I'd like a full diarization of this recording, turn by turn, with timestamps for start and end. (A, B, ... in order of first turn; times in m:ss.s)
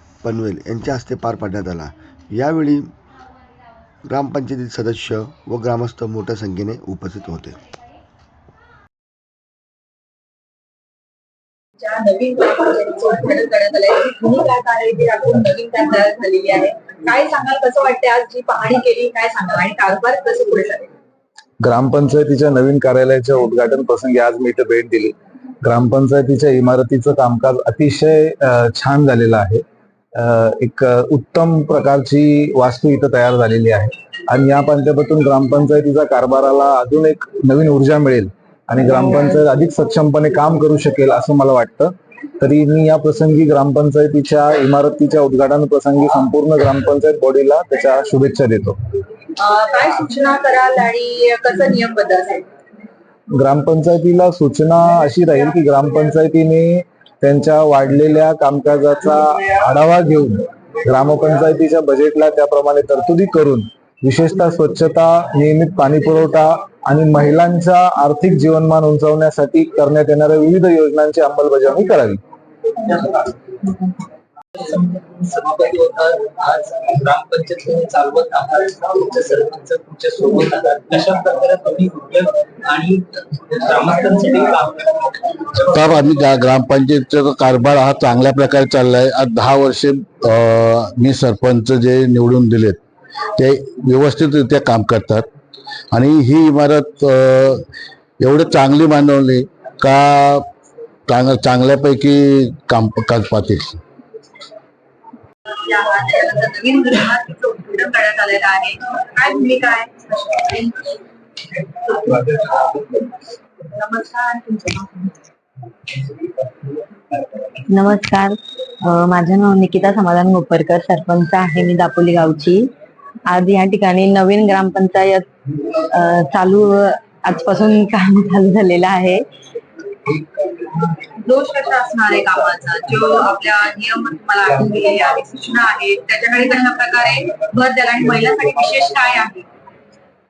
0:00.2-0:02.9 A
0:04.1-0:07.6 A
0:11.8-0:20.9 B
0:21.6-0:29.6 C
0:30.1-0:48.8 C
0:49.4-0:52.5 B
0:53.4-1:12.2 C
1:14.6-1:23.0 D
1:23.7-1:24.7 D
1:25.7-1:32.8 E
1:33.4-1:35.3 E
1:35.9-1:37.6 E
1:38.2-1:40.5 E
1:41.1-1:43.8 E
1:45.5-1:51.0 B
1:51.9-1:53.0 B
1:53.7-1:55.2 B
1:57.7-2:02.7 F
2:03.3-2:05.3 F
2:05.9-2:09.2 F
2:11.2-2:19.5 B